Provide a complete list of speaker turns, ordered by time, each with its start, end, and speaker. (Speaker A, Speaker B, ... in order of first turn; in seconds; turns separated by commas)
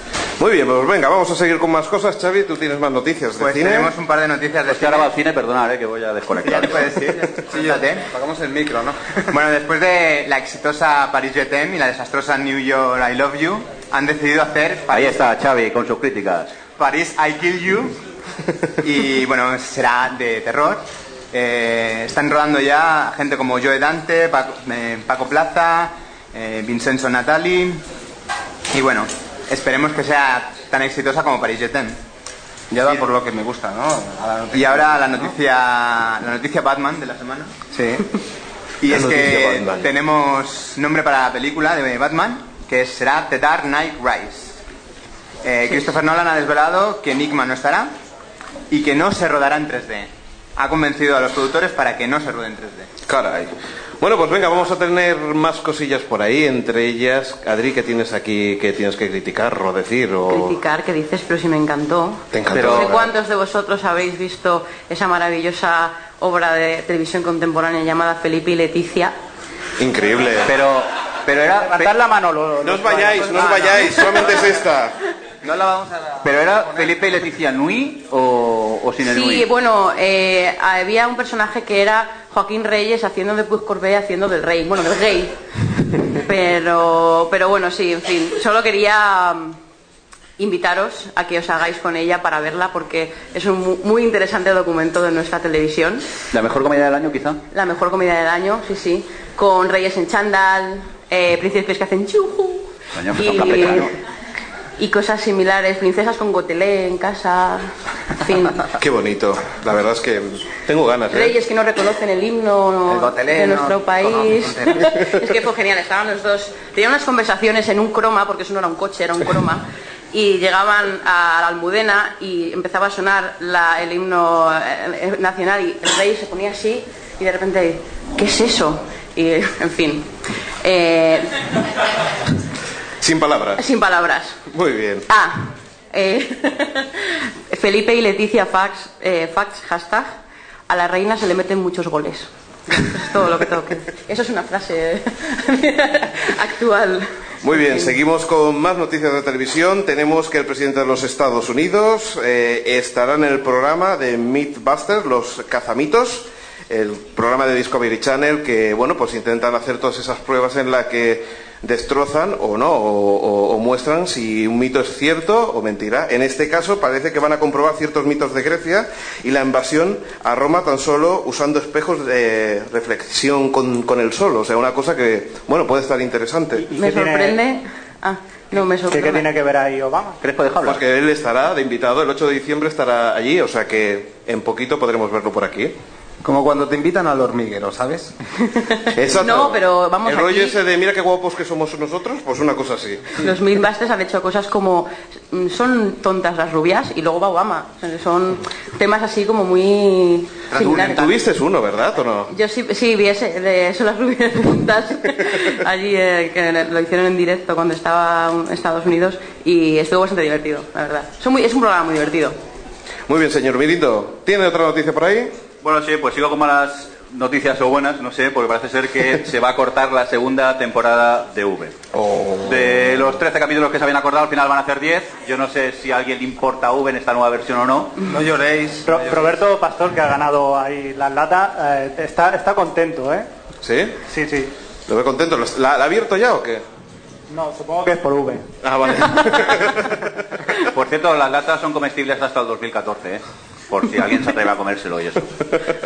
Speaker A: 0.4-3.9, Speaker B: 3.4-5.1, Speaker C: 4.7-7.0, Speaker B: 6.5-8.1, Speaker D: 6.7-9.3, Speaker B: 9.3-15.2, Speaker C: 14.9-16.6, Speaker B: 16.8-18.0, Speaker B: 18.8-27.8, Speaker B: 28.7-32.0, Speaker D: 32.7-35.3, Speaker B: 32.8-33.1, Speaker B: 34.5-37.6, Speaker D: 37.7-38.0, Speaker B: 38.8-44.6, Speaker A: 38.9-39.9, Speaker B: 45.4-47.9, Speaker B: 48.7-52.9, Speaker A: 53.1-60.6, Speaker E: 60.3-69.1, Speaker A: 62.3-63.1, Speaker C: 62.5-62.9, Speaker A: 69.8-70.5, Speaker C: 70.5-71.9, Speaker F: 71.5-74.2, Speaker A: 72.6-75.0, Speaker D: 75.5-76.2, Speaker C: 76.2-79.5, Speaker E: 79.0-89.6, Speaker E: 90.4-96.1, Speaker C: 96.3-97.4, Speaker E: 97.5-103.9, Speaker C: 102.9-103.9, Speaker E: 104.8-108.7, Speaker A: 108.8-111.3, Speaker E: 111.1-130.1, Speaker D: 112.9-114.9, Speaker E: 130.6-131.4, Speaker A: 133.0-133.6, Speaker E: 133.6-134.4, Speaker A: 134.5-135.1, Speaker E: 135.1-140.1, Speaker E: 140.7-147.9, Speaker A: 147.4-176.7, Speaker F: 176.6-177.4, Speaker E: 176.8-179.3, Speaker F: 178.9-180.2, Speaker C: 180.2-180.8, Speaker A: 180.6-185.7, Speaker D: 186.2-188.1, Speaker E: 188.5-190.6, Speaker A: 188.9-193.2, Speaker E: 193.2-201.2, Speaker A: 200.7-202.3, Speaker E: 202.3-212.4, Speaker A: 213.1-215.3, Speaker C: 215.6-221.8, Speaker A: 221.9-222.7, Speaker C: 222.4-228.0, Speaker D: 228.0-229.4, Speaker F: 228.8-233.3, Speaker A: 233.6-234.0, Speaker F: 234.1-234.5, Speaker A: 234.9-236.6, Speaker F: 237.3-238.5, Speaker A: 238.6-240.1, Speaker C: 240.5-245.5